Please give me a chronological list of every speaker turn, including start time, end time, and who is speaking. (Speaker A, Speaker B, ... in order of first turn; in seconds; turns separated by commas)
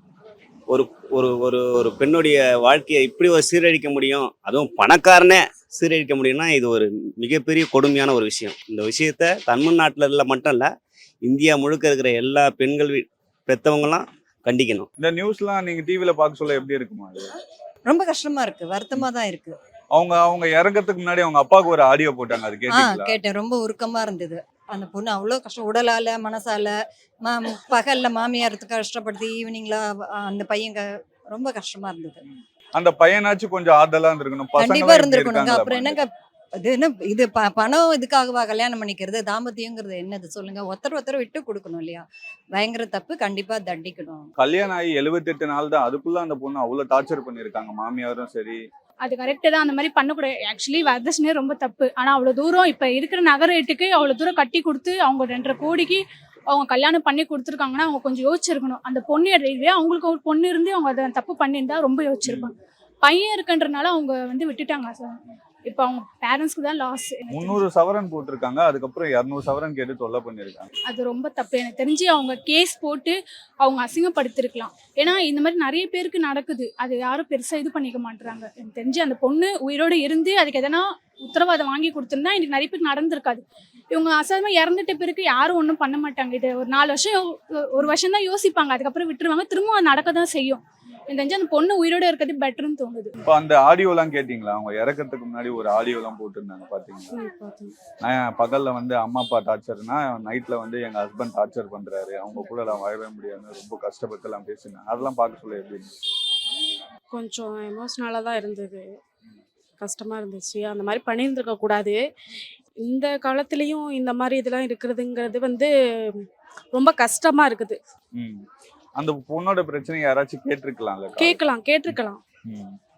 Speaker A: 0.7-10.7, Speaker A: 11.3-14.9, Speaker B: 15.0-17.3, Speaker C: 17.9-19.6, Speaker B: 19.9-23.1, Speaker C: 22.7-26.8, Speaker C: 27.3-32.2, Speaker B: 32.3-36.0, Speaker C: 34.6-36.1, Speaker C: 36.6-42.0, Speaker C: 42.6-44.3, Speaker B: 44.4-48.6, Speaker D: 49.0-67.6, Speaker B: 62.3-62.5, Speaker B: 67.3-70.7, Speaker D: 70.9-93.1, Speaker B: 93.3-97.1, Speaker E: 97.1-97.8, Speaker B: 98.0-105.9, Speaker E: 107.1-108.9, Speaker E: 109.8-112.0, Speaker E: 112.8-117.8, Speaker B: 118.2-118.4, Speaker B: 119.0-121.4, Speaker E: 121.2-122.2, Speaker B: 122.5-122.8